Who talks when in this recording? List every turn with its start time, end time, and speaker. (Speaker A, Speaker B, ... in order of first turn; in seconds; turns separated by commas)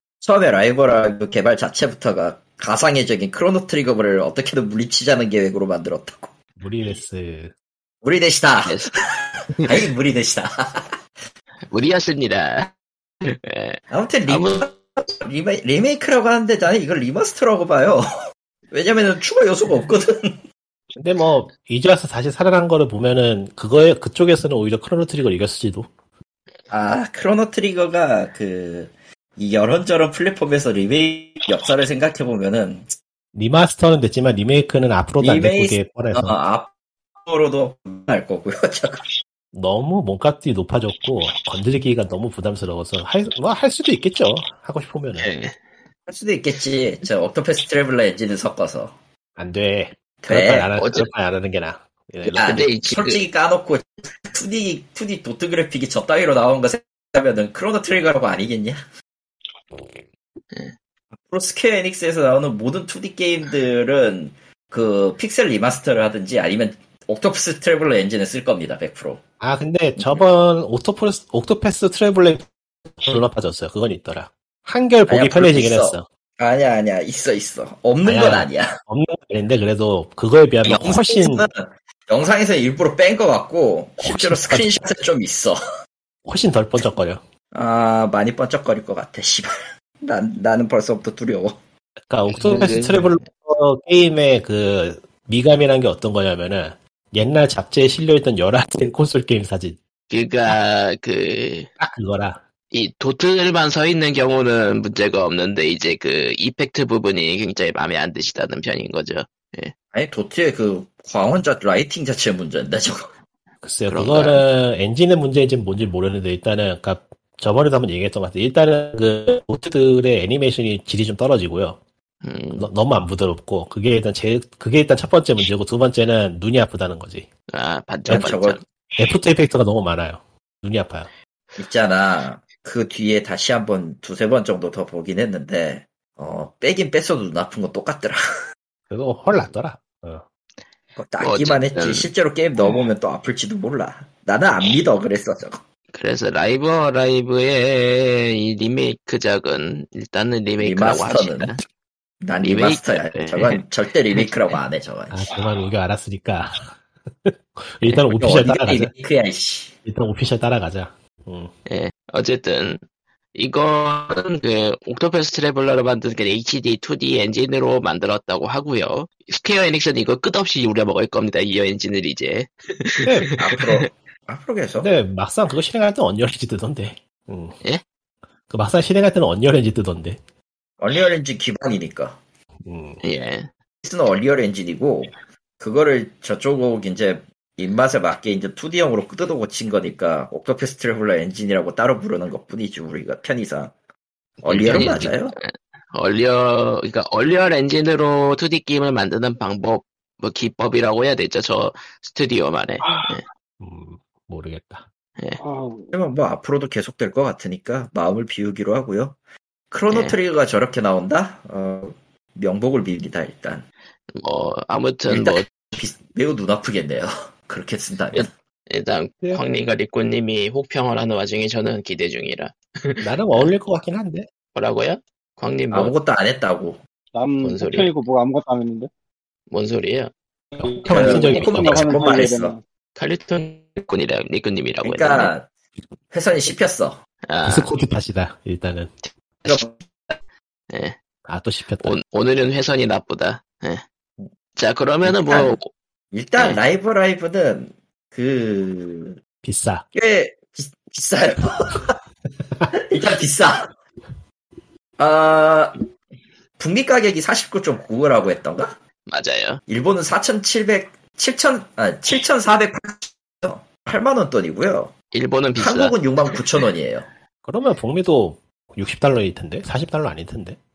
Speaker A: 0.2-6.3, Speaker B: 6.6-7.5, Speaker A: 8.0-11.0, Speaker C: 8.6-8.9, Speaker C: 9.5-9.8, Speaker C: 11.7-14.6, Speaker A: 13.9-18.1, Speaker A: 18.7-20.4, Speaker B: 20.9-25.9, Speaker A: 26.7-32.9, Speaker B: 33.3-36.4, Speaker A: 35.2-36.7, Speaker A: 37.2-39.1, Speaker B: 39.5-45.3, Speaker C: 45.1-45.6, Speaker A: 46.1-49.0, Speaker B: 49.4-52.5, Speaker A: 50.2-50.7, Speaker C: 50.8-51.1, Speaker C: 52.2-53.2, Speaker A: 52.3-58.8, Speaker A: 61.3-69.2, Speaker B: 69.4-72.5, Speaker A: 70.0-70.2, Speaker B: 73.0-76.0, Speaker A: 75.1-78.8, Speaker B: 78.0-81.5, Speaker A: 80.6-85.6, Speaker B: 84.0-84.8, Speaker B: 86.2-87.2, Speaker A: 87.5-89.5, Speaker A: 90.0-91.6, Speaker B: 92.1-99.8, Speaker C: 92.3-93.2, Speaker C: 100.1-101.7, Speaker B: 101.8-102.4, Speaker C: 102.7-109.7, Speaker A: 109.9-113.1, Speaker B: 113.6-121.8, Speaker C: 113.9-114.4, Speaker C: 122.2-122.7, Speaker B: 122.5-127.3, Speaker C: 127.5-128.6, Speaker A: 128.1-128.6, Speaker B: 128.9-131.1, Speaker A: 131.6-138.2, Speaker B: 138.9-140.2, Speaker A: 140.9-145.6, Speaker C: 141.2-142.1, Speaker C: 145.9-151.6, Speaker A: 150.6-151.6, Speaker A: 152.2-155.2, Speaker C: 152.4-153.6, Speaker B: 155.1-158.9, Speaker A: 158.2-159.7, Speaker B: 159.8-161.5, Speaker C: 161.7-162.8, Speaker C: 163.3-173.9, Speaker B: 173.0-173.3, Speaker A: 173.4-174.9, Speaker B: 174.8-177.6, Speaker B: 178.5-180.2, Speaker A: 180.8-182.2, Speaker B: 182.6-183.0, Speaker C: 183.0-183.5, Speaker A: 183.8-193.7, Speaker C: 194.4-203.2, Speaker A: 194.4-195.3, Speaker D: 202.8-203.2, Speaker B: 203.6-204.9, Speaker D: 205.4-205.9, Speaker A: 205.9-209.2, Speaker A: 209.7-213.6, Speaker C: 209.9-210.2, Speaker C: 214.1-215.4, Speaker A: 215.0-218.3, Speaker C: 218.1-223.5, Speaker B: 223.0-224.3, Speaker C: 224.5-225.9, Speaker A: 225.7-226.8, Speaker D: 227.1-228.9, Speaker C: 227.4-227.9, Speaker C: 229.5-230.1, Speaker B: 230.6-232.1, Speaker D: 230.6-232.6, Speaker A: 230.9-232.6, Speaker C: 232.9-235.3, Speaker A: 234.8-235.5, Speaker A: 236.1-237.0, Speaker C: 237.2-237.7, Speaker B: 237.4-238.9, Speaker A: 239.4-240.2, Speaker C: 240.7-241.0, Speaker B: 241.2-242.0, Speaker C: 241.8-243.8, Speaker C: 244.6-245.7, Speaker A: 245.0-245.6, Speaker A: 246.1-249.2, Speaker B: 249.4-249.8, Speaker A: 249.9-251.9, Speaker A: 252.7-253.7, Speaker A: 255.0-255.8, Speaker A: 256.6-258.7, Speaker C: 259.1-259.6, Speaker A: 259.7-264.9, Speaker C: 265.1-266.0, Speaker A: 265.5-267.1, Speaker B: 267.4-270.6